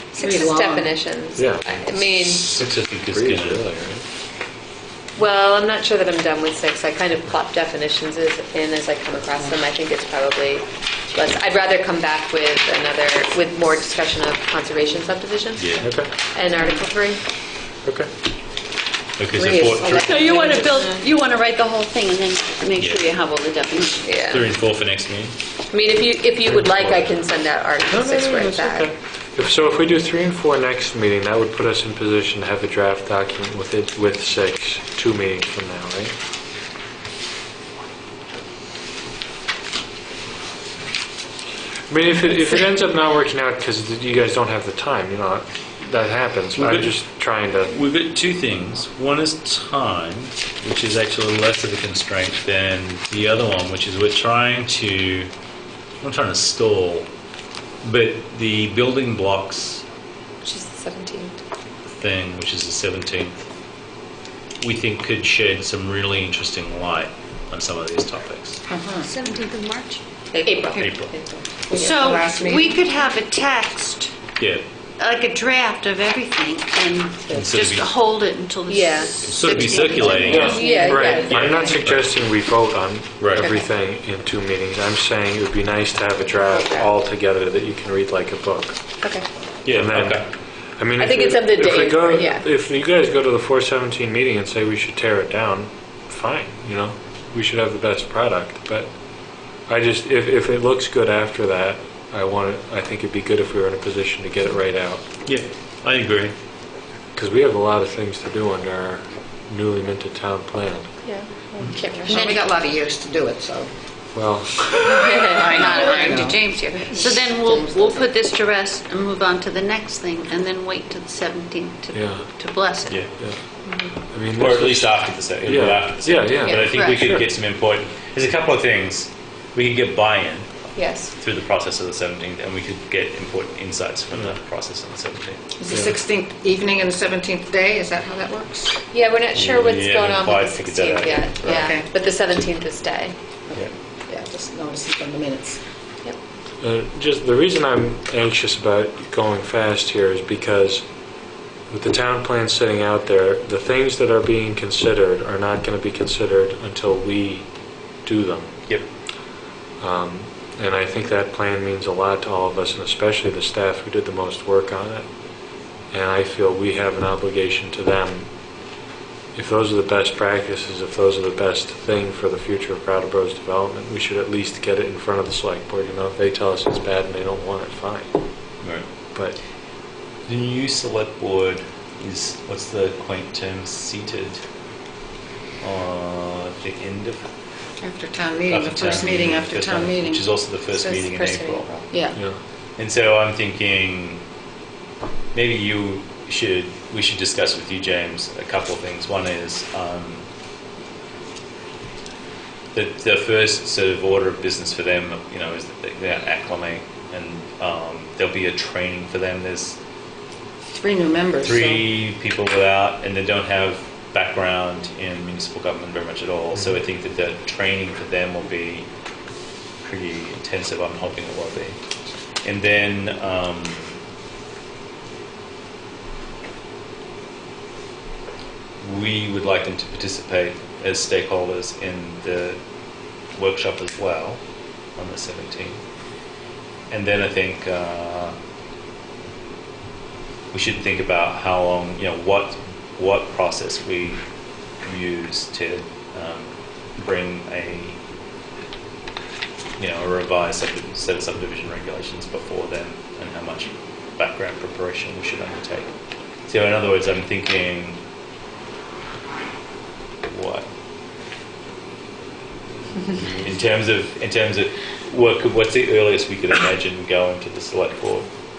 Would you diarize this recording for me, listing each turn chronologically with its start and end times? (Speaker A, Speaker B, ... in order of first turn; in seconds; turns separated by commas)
Speaker A: 0.1-2.5, Speaker B: 0.2-0.9, Speaker C: 1.4-4.0, Speaker D: 2.2-3.6, Speaker A: 5.2-17.2, Speaker D: 15.6-15.9, Speaker C: 15.8-16.1, Speaker D: 19.2-20.1, Speaker A: 19.3-21.0, Speaker E: 19.8-24.1, Speaker D: 22.8-23.0, Speaker A: 24.0-24.5, Speaker D: 24.3-25.4, Speaker A: 25.7-28.9, Speaker C: 26.5-26.9, Speaker C: 27.9-36.1, Speaker C: 41.9-47.7, Speaker D: 46.5-46.9, Speaker D: 47.6-55.3, Speaker D: 56.0-57.1, Speaker D: 57.8-59.8, Speaker A: 60.4-61.4, Speaker D: 61.9-63.4, Speaker D: 64.6-68.6, Speaker B: 68.7-69.1, Speaker E: 69.0-70.0, Speaker A: 70.3-71.0, Speaker B: 70.5-72.9, Speaker D: 70.8-71.1, Speaker E: 71.7-74.2, Speaker D: 74.4-74.6, Speaker E: 75.0-81.6, Speaker D: 77.3-78.0, Speaker A: 78.7-79.1, Speaker D: 79.2-80.6, Speaker A: 80.0-81.7, Speaker C: 80.2-88.8, Speaker B: 80.5-80.8, Speaker D: 81.2-82.1, Speaker D: 83.2-83.5, Speaker A: 83.4-83.7, Speaker A: 86.5-86.9, Speaker D: 89.6-90.3, Speaker C: 89.7-98.9, Speaker A: 91.0-92.5, Speaker C: 99.7-105.0, Speaker D: 105.2-106.3, Speaker C: 107.1-110.9, Speaker A: 111.0-112.4, Speaker B: 112.1-113.7, Speaker C: 114.1-114.7, Speaker A: 114.8-116.1, Speaker B: 115.0-118.1, Speaker E: 115.1-123.0, Speaker C: 121.9-122.3, Speaker A: 123.7-123.9, Speaker C: 124.0-127.2, Speaker D: 124.3-130.5, Speaker E: 126.5-127.0, Speaker A: 130.7-131.1, Speaker D: 131.2-135.4, Speaker B: 135.6-138.7, Speaker A: 138.9-143.1, Speaker D: 139.3-141.7, Speaker B: 141.4-141.9, Speaker B: 143.5-145.6, Speaker C: 146.6-150.8, Speaker C: 151.7-157.4, Speaker C: 158.0-158.6, Speaker C: 159.8-165.1, Speaker C: 165.9-168.3, Speaker C: 169.3-178.1, Speaker D: 180.2-184.4, Speaker D: 185.6-187.3, Speaker B: 187.8-190.2, Speaker D: 188.5-191.7, Speaker A: 190.7-191.9, Speaker B: 191.9-192.2, Speaker D: 192.8-194.2, Speaker D: 195.3-200.2, Speaker D: 202.7-209.8, Speaker B: 210.7-211.8, Speaker D: 211.4-218.9, Speaker D: 219.8-221.8, Speaker D: 222.4-223.9, Speaker D: 228.8-232.6, Speaker D: 233.3-234.4, Speaker D: 235.0-235.8, Speaker D: 236.9-238.3, Speaker D: 240.5-244.2, Speaker D: 244.8-248.0, Speaker D: 249.8-255.9, Speaker D: 256.5-258.0, Speaker D: 260.2-260.6, Speaker D: 263.1-268.3